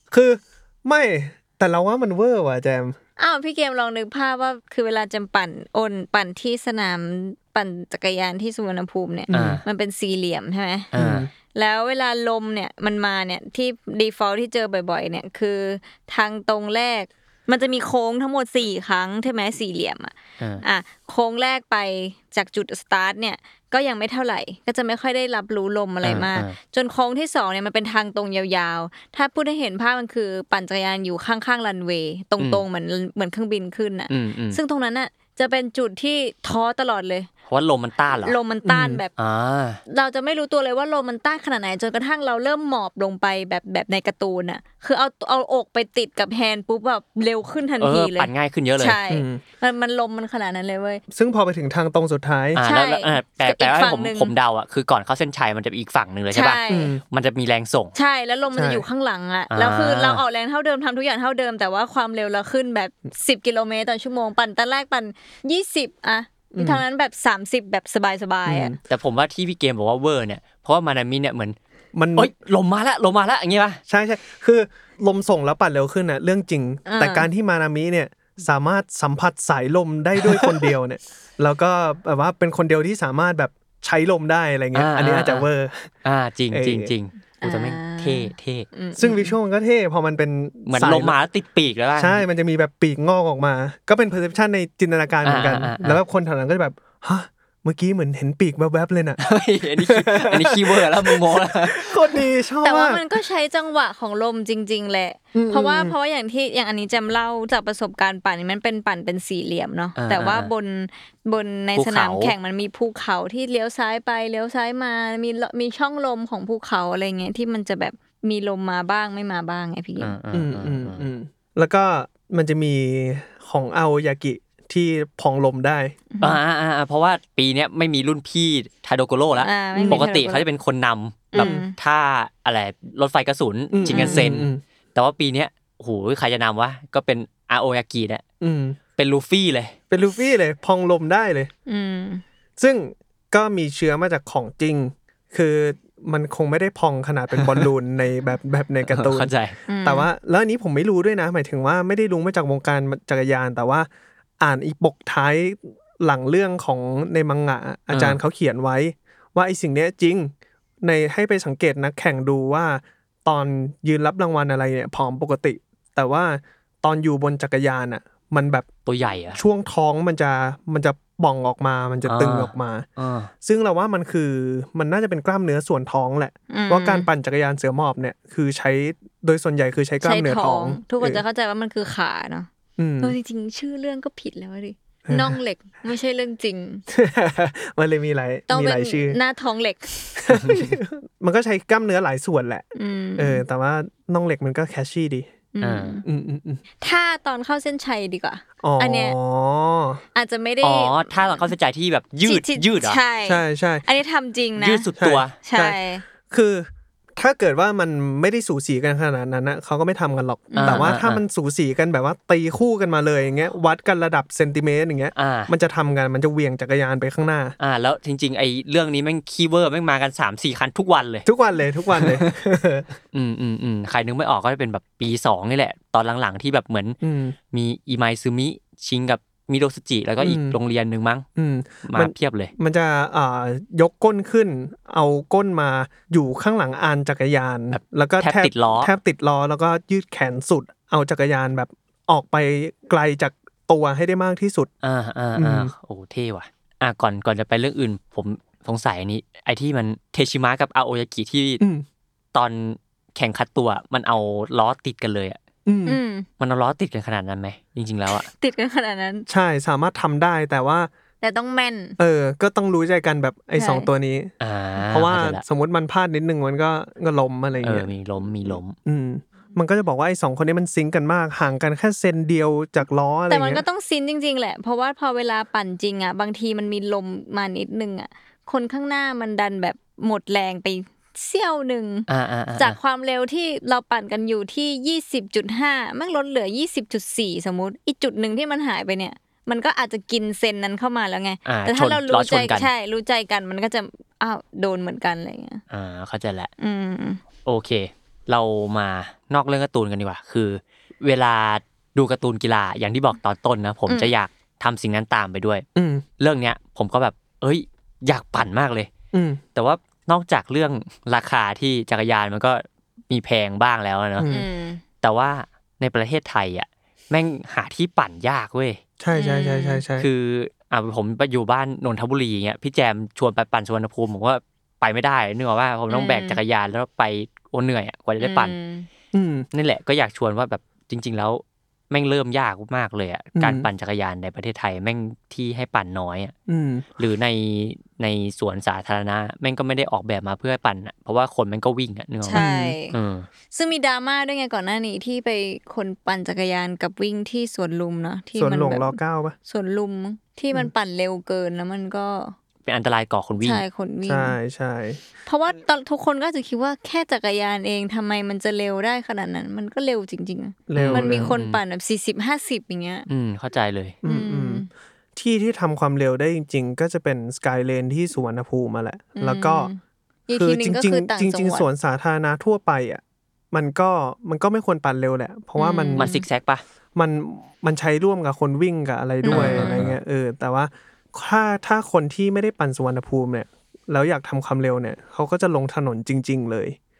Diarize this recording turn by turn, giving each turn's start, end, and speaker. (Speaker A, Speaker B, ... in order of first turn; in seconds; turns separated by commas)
Speaker A: 0.1-3.0, Speaker B: 3.2-10.9, Speaker A: 9.3-9.6, Speaker C: 9.3-9.6, Speaker C: 10.9-11.3, Speaker A: 10.9-11.3, Speaker B: 11.5-37.3, Speaker C: 26.0-26.6, Speaker C: 34.1-34.6, Speaker C: 37.5-38.4, Speaker B: 38.2-39.1, Speaker A: 38.6-39.0, Speaker C: 39.2-39.8, Speaker B: 39.9-51.0, Speaker C: 47.8-49.0, Speaker A: 49.1-49.4, Speaker A: 51.1-52.6, Speaker C: 52.5-57.9, Speaker B: 52.6-54.3, Speaker B: 56.3-56.9, Speaker A: 56.7-57.0, Speaker B: 58.0-68.7, Speaker A: 58.5-58.8, Speaker C: 59.5-60.2, Speaker A: 66.5-66.8, Speaker A: 68.5-68.8, Speaker C: 68.9-71.5, Speaker A: 71.9-72.3, Speaker C: 72.2-73.8, Speaker A: 73.9-85.9, Speaker B: 76.8-77.3, Speaker C: 84.7-85.5, Speaker C: 86.0-88.7, Speaker A: 86.5-86.9, Speaker B: 87.4-89.3, Speaker A: 89.0-91.2, Speaker C: 90.7-92.2, Speaker A: 92.0-99.2, Speaker C: 95.2-96.0, Speaker C: 99.2-102.2, Speaker A: 99.8-103.0, Speaker B: 102.6-120.1, Speaker A: 105.3-105.9, Speaker C: 110.0-110.5, Speaker C: 111.7-112.3, Speaker C: 120.0-121.1, Speaker A: 120.3-126.0, Speaker B: 126.1-126.4, Speaker C: 126.2-138.2, Speaker B: 129.4-130.4, Speaker A: 129.7-130.1, Speaker B: 131.3-131.7, Speaker A: 131.3-131.6, Speaker A: 133.7-134.6, Speaker B: 133.9-134.2, Speaker A: 138.4-138.8, Speaker C: 139.0-139.7, Speaker A: 139.9-141.5, Speaker B: 141.7-142.2, Speaker A: 142.6-149.3, Speaker C: 147.3-147.7, Speaker C: 148.9-149.6, Speaker B: 149.7-150.1, Speaker A: 149.8-153.9, Speaker A: 154.4-168.7, Speaker C: 157.9-158.2, Speaker C: 168.8-169.4, Speaker A: 169.3-172.9, Speaker C: 172.0-173.3, Speaker A: 173.4-181.2, Speaker B: 176.5-177.1, Speaker B: 180.0-182.5, Speaker A: 182.8-183.2, Speaker B: 183.0-186.8, Speaker A: 185.0-185.4, Speaker A: 186.9-189.2, Speaker B: 188.5-190.2, Speaker A: 190.2-192.7, Speaker C: 190.4-190.7, Speaker B: 192.7-193.4, Speaker A: 193.2-195.3, Speaker B: 195.5-196.0, Speaker C: 195.6-196.0, Speaker A: 196.0-196.6, Speaker B: 196.8-199.2, Speaker A: 198.6-200.0, Speaker B: 200.1-201.5, Speaker C: 200.6-203.0, Speaker B: 202.2-204.9, Speaker A: 203.2-203.8, Speaker C: 204.6-205.4, Speaker A: 205.0-217.6, Speaker B: 205.4-206.0, Speaker B: 210.5-210.9, Speaker C: 210.6-211.2, Speaker C: 215.2-215.5, Speaker C: 217.6-221.3, Speaker A: 221.2-222.9, Speaker C: 221.9-222.3, Speaker C: 223.1-227.0, Speaker A: 227.0-227.3, Speaker C: 227.5-231.2, Speaker A: 230.2-230.6, Speaker A: 231.4-244.7, Speaker C: 231.8-232.5, Speaker C: 237.7-238.9, Speaker C: 244.8-251.6, Speaker A: 245.3-245.7, Speaker A: 251.6-251.8, Speaker C: 252.3-255.4, Speaker A: 255.7-256.0, Speaker B: 255.8-256.2, Speaker C: 256.4-258.3, Speaker B: 258.1-259.3, Speaker A: 259.3-260.9, Speaker B: 261.2-262.0, Speaker A: 262.0-264.3, Speaker B: 263.5-263.9, Speaker C: 264.4-265.4, Speaker A: 264.9-267.9, Speaker C: 267.6-268.8, Speaker A: 268.4-273.6, Speaker B: 273.3-295.6, Speaker C: 282.1-282.8, Speaker C: 291.4-292.7, Speaker C: 295.7-296.5, Speaker B: 296.6-297.2, Speaker C: 297.4-305.6, Speaker A: 305.7-306.0, Speaker C: 306.2-308.9, Speaker A: 309.1-309.4, Speaker C: 309.6-314.3, Speaker A: 314.2-314.4, Speaker B: 314.3-314.8, Speaker C: 315.0-318.8, Speaker A: 319.0-320.1, Speaker B: 319.1-319.8, Speaker C: 320.0-328.5, Speaker B: 325.9-326.4, Speaker B: 328.2-328.9, Speaker A: 329.1-329.5, Speaker C: 329.5-336.3, Speaker A: 333.4-333.7, Speaker A: 336.5-336.9, Speaker C: 337.0-343.3, Speaker B: 342.2-342.9, Speaker A: 342.3-342.8, Speaker B: 343.5-352.4, Speaker A: 348.4-349.4, Speaker C: 352.6-353.6, Speaker B: 353.4-354.4, Speaker A: 354.0-355.0, Speaker B: 355.2-363.1, Speaker A: 360.7-361.3, Speaker C: 360.8-361.6, Speaker C: 363.1-363.9, Speaker A: 364.0-369.7, Speaker B: 364.0-364.7, Speaker B: 369.2-371.7, Speaker A: 370.3-376.1, Speaker B: 375.6-376.2, Speaker C: 375.9-376.6, Speaker A: 376.9-386.8, Speaker B: 379.2-379.8, Speaker C: 379.3-380.0